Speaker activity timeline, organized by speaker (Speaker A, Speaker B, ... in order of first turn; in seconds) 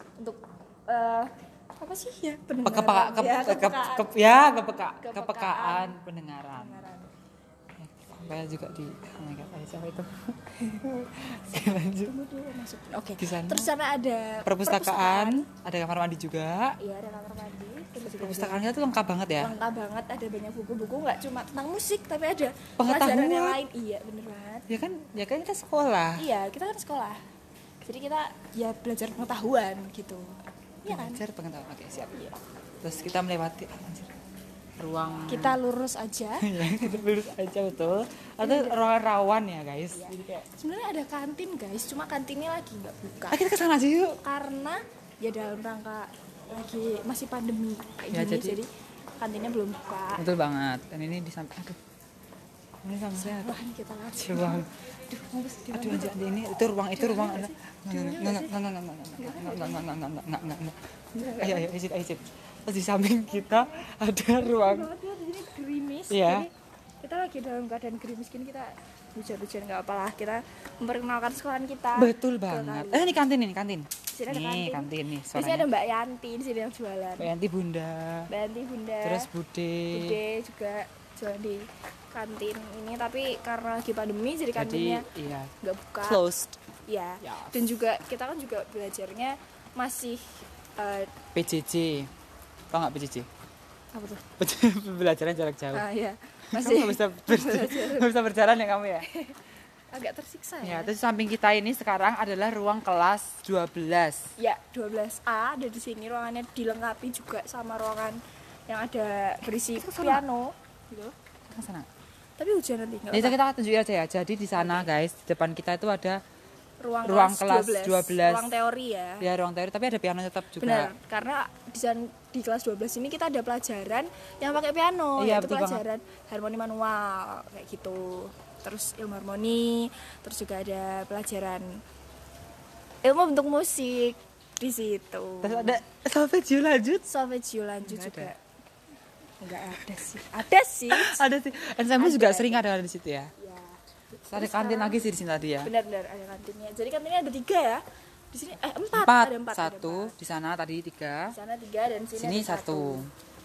Speaker A: 0.2-4.1, 5.0-5.9, 6.5-7.1, 11.6-15.5, 16.8-18.6, 19.4-24.6, 26.2-27.2, 27.8-31.2, 35.3-36.5, 38.4-38.8, 39.9-43.4, 44.2-50.2, 53.1-56.1, 56.9-58.6, 59.2-59.9, 61.1-61.7, 63.3-66.5, 67.0-73.2, 74.1-77.3, 78.3-79.3, 79.9-85.1, 85.6-86.2, 86.9-91.1, 93.9-94.2, 95.7-98.1, 99.0-99.4, 99.9-100.9, 104.4-111.1, 112.4-113.4, 114.5-114.9, 116.8-119.2, 120.6-131.8, 133.0-135.8, 137.1-138.4, 139.4-141.2, 141.9-142.6, 143.4-143.8, 144.3-145.0, 145.6-150.1, 151.3-153.0
Speaker B: 2.6-6.8, 7.8-12.1, 13.2-13.7, 14.4-16.8, 18.2-19.5, 22.8-23.6, 24.7-26.2, 30.9-32.1, 32.8-34.1, 34.8-35.6, 36.4-40.4, 43.3-44.2, 48.1-48.6, 50.1-51.8, 52.8-53.5, 54.2-54.7, 55.7-60.8, 61.4-64.9, 66.1-66.5, 72.0-75.7, 77.2-78.3, 79.0-80.2, 84.5-86.6, 87.2-87.7, 91.3-92.1, 92.7-93.3, 94.4-95.8, 96.5-99.1, 100.6-104.2, 109.8-110.2, 111.5-111.9, 113.1-116.2, 117.0-118.5, 119.2-120.9, 125.2-125.8, 135.4-137.0, 137.8-138.3, 140.9-143.3, 144.3-145.7, 148.9-151.3, 152.2-153.1